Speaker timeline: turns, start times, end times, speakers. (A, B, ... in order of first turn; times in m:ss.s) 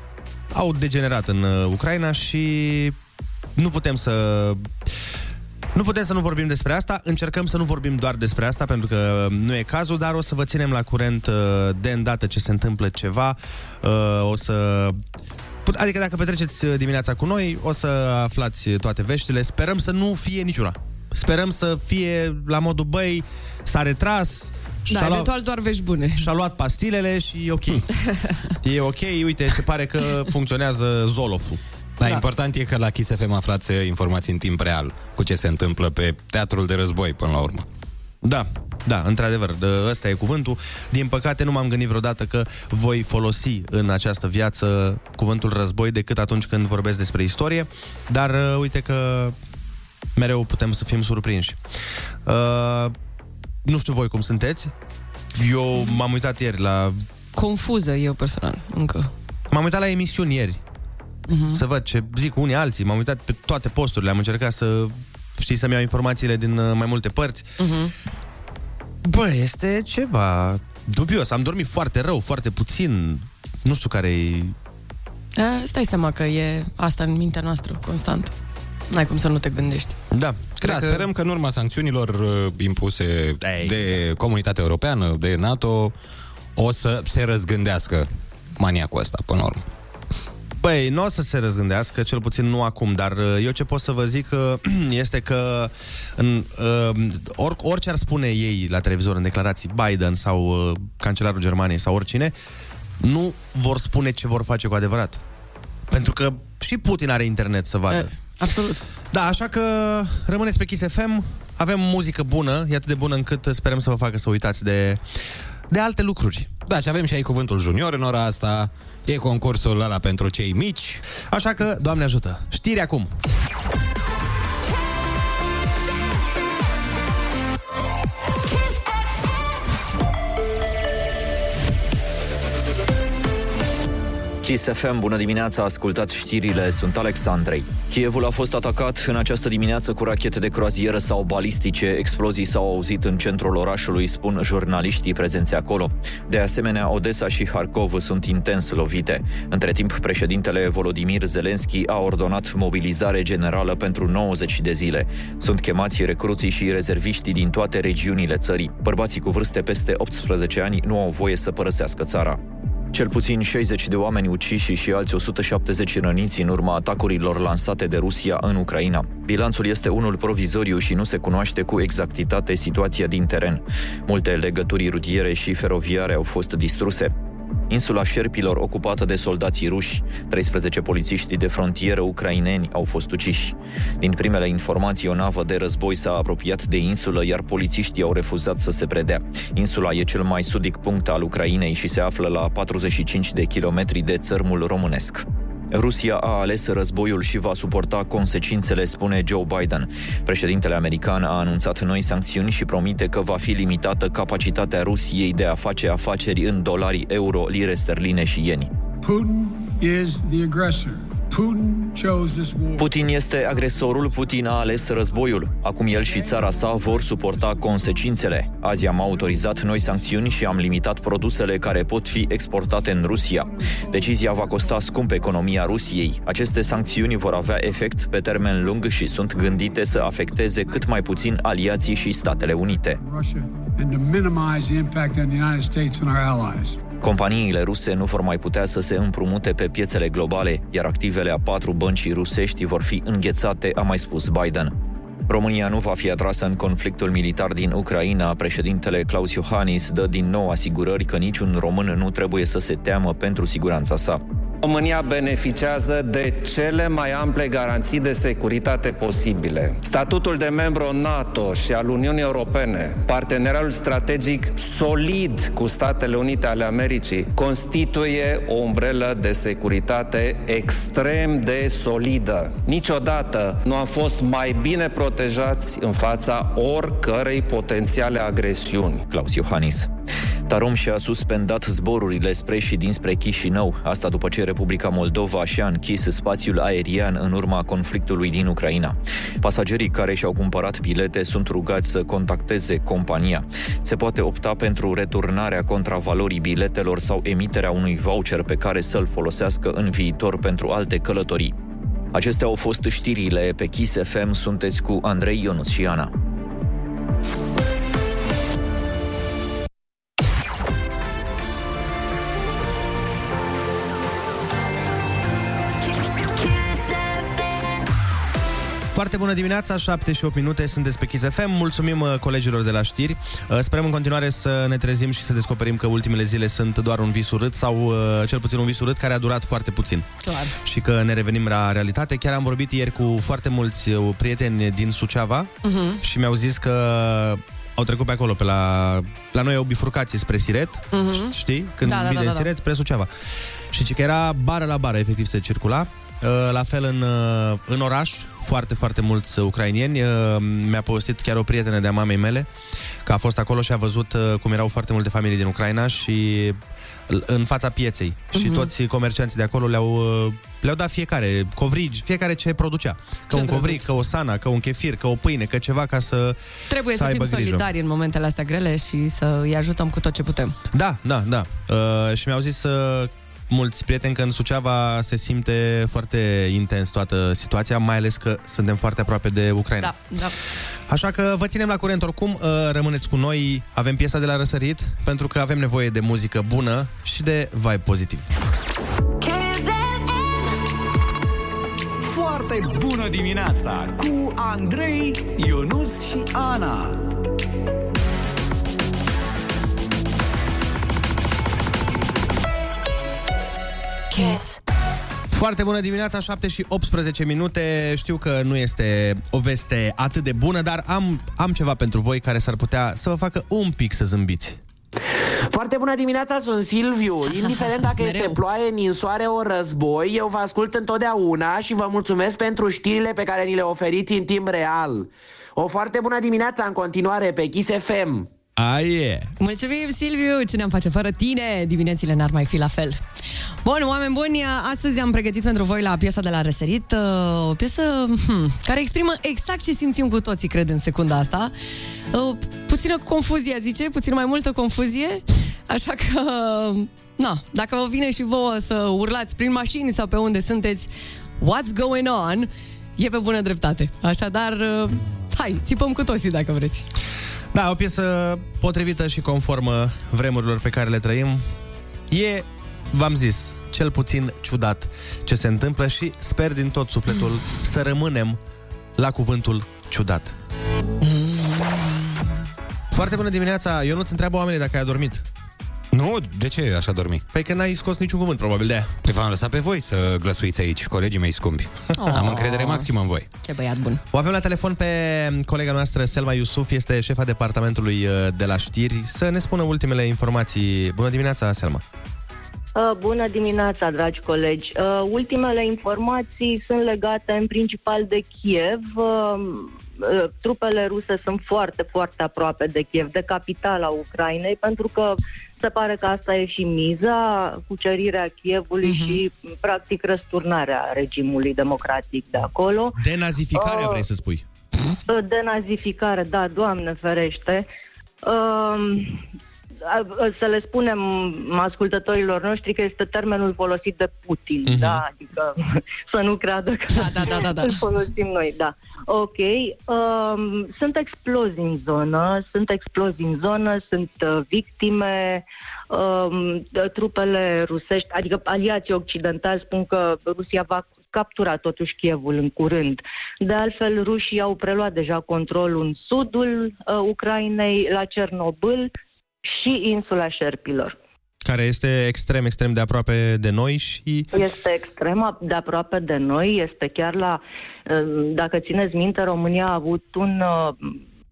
0:00.5-0:03.0 A
0:03.6-0:04.7 A
0:05.7-0:15.0 A
0:15.6-0:25.3 A
0:24.9-0:26.3 B
0:26.2-0:27.8 A
0:28.0-0:28.5 B
0:28.6-0:31.6 A
0:32.0-0:37.6 C
0:38.2-0:49.4 A
0:50.2-0:51.6 A
0:52.3-0:52.9 A
0:53.6-0:54.7 A
0:55.4-0:57.0 A
0:57.4-0:59.1 B
0:59.5-1:00.6 A
1:01.3-1:01.6 B
1:01.5-1:07.5 A
1:07.6-1:07.9 B
1:09.0-1:14.6 A
1:15.4-1:18.3 B
1:18.9-1:20.0 B
1:20.1-1:21.1 A
1:20.6-1:26.0 C
1:23.4-1:24.0 A
1:26.6-1:29.6 C
1:30.6-1:42.3 A
1:43.0-1:45.2 A
1:45.9-1:48.1 A
1:47.9-1:48.8 B
1:49.1-1:55.0 A
1:55.7-1:56.5 A
1:56.7-2:01.0 C
2:01.3-2:03.1 A
2:14.4-2:42.4 D
2:42.9-2:57.1 D
2:57.7-3:28.7 D
3:29.0-3:33.0 E
3:32.8-3:53.0 D
3:50.7-3:51.2 E
3:53.0-3:56.8 E
3:57.0-4:04.7 D
4:05.3-4:14.2 D
4:14.6-4:39.0 F
4:39.1-4:39.9 D
4:40.5-5:01.5 D
5:02.1-5:06.1 D
5:18.9-5:30.1 A
5:30.2-5:30.5 B
5:30.6-5:43.1 A
5:35.6-5:36.0 B
5:40.9-5:41.3 B
5:41.8-5:42.5 B
5:43.7-5:52.5 A
5:53.0-6:07.6 A
5:58.3-5:58.7 B
6:03.3-6:03.9 B
6:06.7-6:10.6 B
6:10.7-6:20.0 A
6:19.8-6:20.4 B
6:20.9-6:28.3 A
6:32.0-6:37.0 G
6:44.1-6:44.6 B
6:45.3-6:54.6 A
6:55.5-7:08.3 H
6:58.0-6:58.4 B
7:08.6-7:09.3 A
7:09.4-7:13.0 B
7:13.6-7:21.5 B
7:22.1-7:30.9 B
7:31.4-7:36.9 B
7:37.5-7:41.4 A
7:42.1-7:48.4 A
7:49.0-7:50.3 A
7:51.0-7:52.1 B
7:52.9-7:55.2 A
7:55.9-7:57.2 C
7:57.3-7:58.9 A
7:59.0-8:03.3 C
8:02.0-8:02.9 B
8:03.4-8:04.0 B
8:04.1-8:11.8 A
8:12.8-8:33.0 I
8:28.8-8:29.2 B
8:33.0-8:34.4 A
8:33.6-8:34.0 I
8:35.1-8:37.7 I
8:38.2-8:39.2 I
8:39.8-9:08.9 I
8:44.7-8:45.0 A
8:46.9-8:47.8 B
9:09.4-9:11.0 I
9:11.4-9:14.3 A
9:14.3-9:21.0 I